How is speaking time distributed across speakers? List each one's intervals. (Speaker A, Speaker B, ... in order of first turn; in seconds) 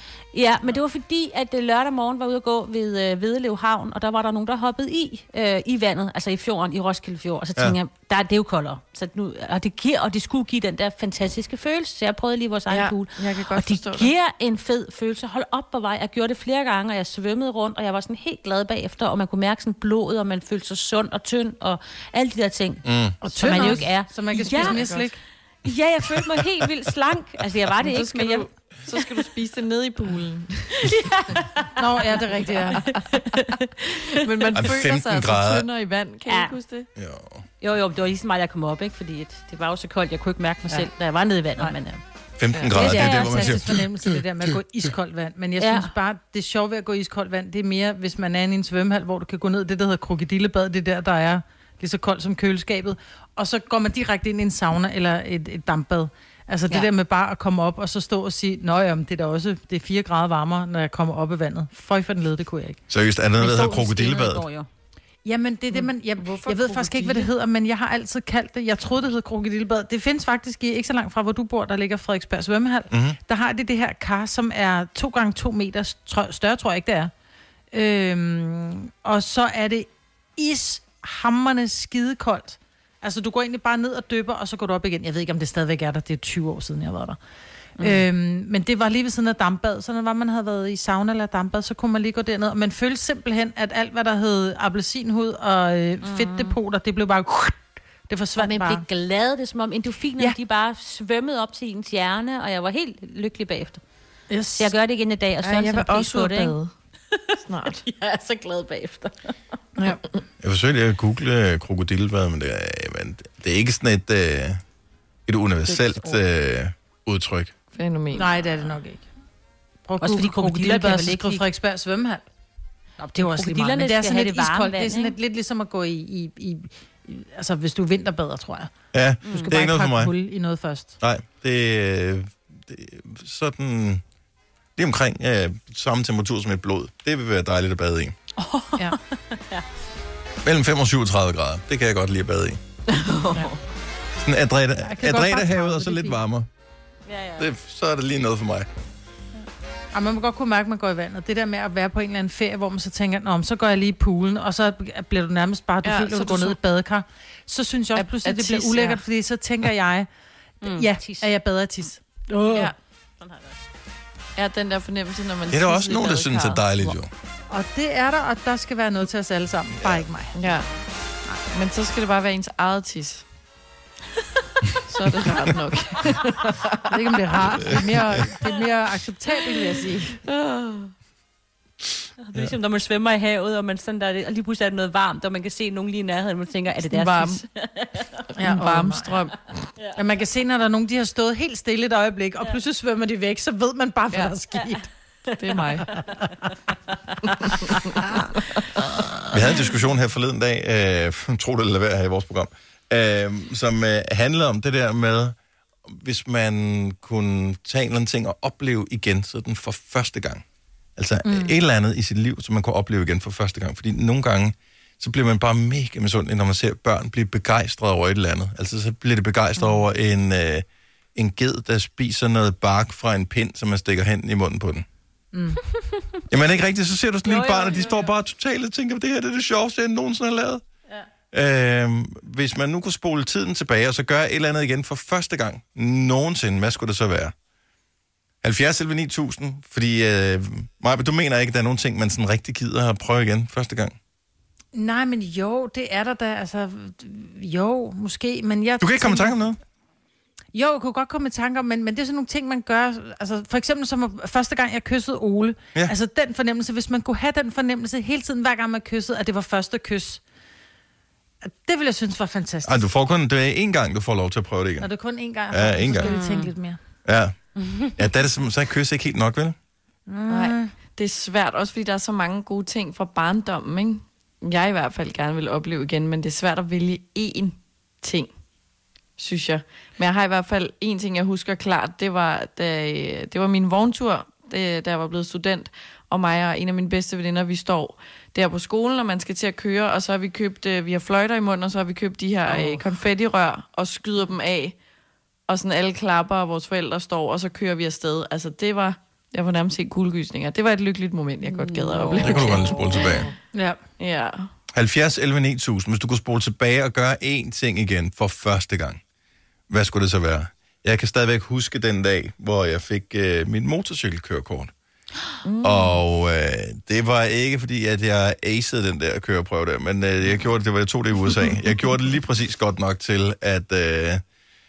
Speaker A: 0.3-24.8, 25.6-29.2, 30.8-31.5, 32.9-33.6, 36.3-36.6, 37.6-42.0, 42.7-43.6, 45.6-45.9, 63.4-64.7, 96.0-96.6, 98.4-103.8, 104.6-106.6, 107.3-109.3, 120.0-121.5, 123.1-125.2, 129.3-129.5, 138.4-139.7, 147.1-147.5, 160.6-161.3, 163.2-163.6, 182.3-188.3, 227.3-228.1, 266.0-266.5, 267.6-267.9, 301.4-303.0
Speaker B: 12.7-14.1, 23.5-25.1, 27.8-30.9, 33.2-36.9, 65.7-67.3, 105.4-106.7, 107.5-107.8, 117.7-118.3, 142.9-143.6, 155.8-156.6, 158.0-159.0, 164.4-166.7, 170.4-170.7, 171.5-173.2, 174.9-177.0, 180.2-180.9, 186.9-187.4, 188.4-189.4, 195.4-195.9, 197.4-198.7, 270.3-278.3, 279.2-294.8, 295.5-303.3, 304.0-304.5, 315.4-316.0
Speaker C: 22.9-23.1, 34.5-35.7, 37.0-37.4, 42.4-43.8, 62.9-64.4, 72.9-73.2, 110.4-114.6, 115.3-117.5, 128.9-130.1, 131.0-134.0, 134.8-138.2, 140.4-142.6, 144.2-146.5, 147.4-148.7, 165.5-167.1, 199.3-205.3, 205.9-210.4, 211.0-224.8, 226.3-230.6, 231.3-237.3, 238.4-244.0, 248.8-249.6, 262.6-264.9, 265.5-266.2, 267.1-267.4, 268.0-269.6, 302.2-303.3, 304.7-309.0, 309.7-314.7, 315.6-324.2
Speaker D: 23.2-25.2, 31.8-32.8, 42.8-62.8, 65.3-77.1, 77.7-87.2, 87.8-97.6, 98.1-98.8, 104.3-104.7, 115.7-116.2, 118.1-119.1, 119.9-122.2, 123.0-128.7, 129.5-130.9, 144.8-146.2, 149.9-160.1, 160.7-162.7, 167.5-170.4, 176.9-180.2, 188.4-189.1, 189.9-194.9, 211.2-211.5, 225.3-225.6, 244.7-249.4, 250.5-260.2, 261.4-262.9, 264.8-266.8, 270.1-270.7, 303.5-303.8